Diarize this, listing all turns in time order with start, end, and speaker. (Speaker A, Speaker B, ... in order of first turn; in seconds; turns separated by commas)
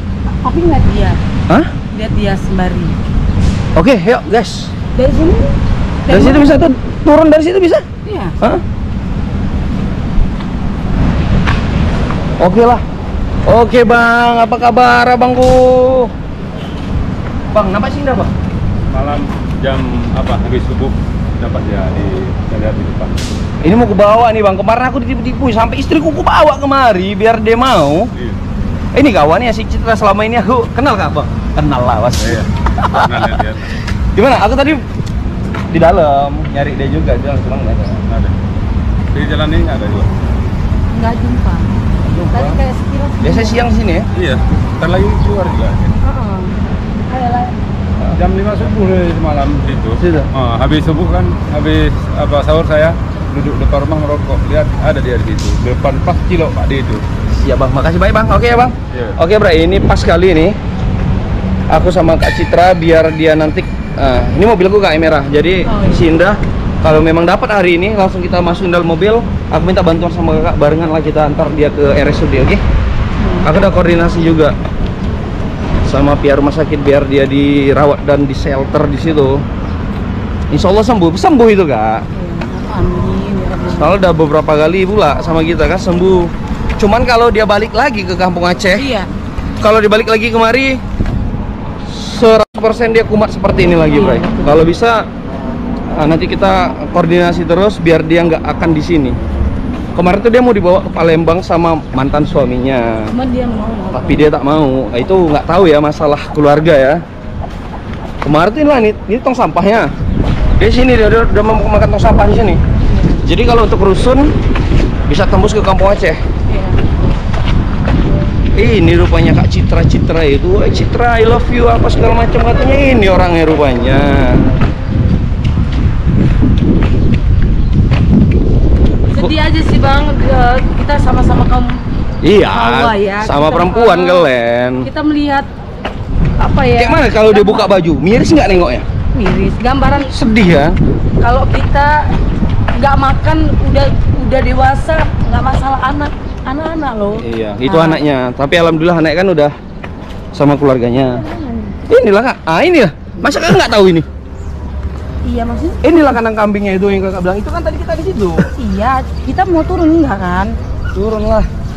Speaker A: 0.4-1.2, Speaker A: 1.9-3.0, Speaker B: 3.8-4.7, Speaker A: 4.9-5.5, Speaker A: 6.0-6.6, Speaker B: 6.1-7.8, Speaker A: 8.0-8.4, Speaker B: 12.4-12.8, Speaker B: 13.5-16.1, Speaker B: 17.5-18.3, Speaker C: 18.9-23.1, Speaker B: 23.6-28.1, Speaker B: 28.9-33.6, Speaker C: 32.2-33.7, Speaker B: 34.1-34.8, Speaker B: 35.7-38.0, Speaker C: 38.1-38.3, Speaker C: 39.1-40.1, Speaker A: 40.9-41.7, Speaker B: 42.0-42.6, Speaker A: 42.3-43.6, Speaker B: 43.2-44.1, Speaker C: 44.1-45.9, Speaker A: 46.0-47.5, Speaker C: 48.1-57.0, Speaker B: 50.0-50.3, Speaker B: 57.3-60.5, Speaker C: 58.9-59.2, Speaker B: 61.7-72.6, Speaker A: 65.7-66.0, Speaker A: 73.2-73.5, Speaker B: 73.4-74.5, Speaker B: 75.8-79.4, Speaker B: 80.5-82.0, Speaker A: 82.1-83.9, Speaker B: 83.7-88.9, Speaker A: 88.7-89.1, Speaker B: 89.6-90.8, Speaker B: 91.9-95.1, Speaker A: 93.8-94.7, Speaker B: 95.9-99.2, Speaker B: 99.9-103.1, Speaker A: 103.1-104.3, Speaker B: 103.9-107.0, Speaker B: 108.2-109.9, Speaker B: 110.6-112.6, Speaker A: 112.9-113.2, Speaker B: 113.2-114.3, Speaker B: 115.1-116.2, Speaker A: 116.5-116.8, Speaker B: 118.5-124.5, Speaker A: 129.1-131.8, Speaker B: 132.2-134.9, Speaker A: 132.5-134.3, Speaker A: 134.8-135.5, Speaker A: 136.4-137.7, Speaker B: 136.8-138.8, Speaker A: 139.1-140.1, Speaker B: 140.0-140.8, Speaker A: 141.2-142.1, Speaker A: 142.7-148.0, Speaker B: 147.2-149.5, Speaker B: 150.3-151.2, Speaker A: 151.1-151.8, Speaker B: 151.9-154.1, Speaker A: 153.2-153.6, Speaker A: 155.2-156.2, Speaker B: 155.8-158.5, Speaker A: 158.4-160.5, Speaker B: 160.9-161.5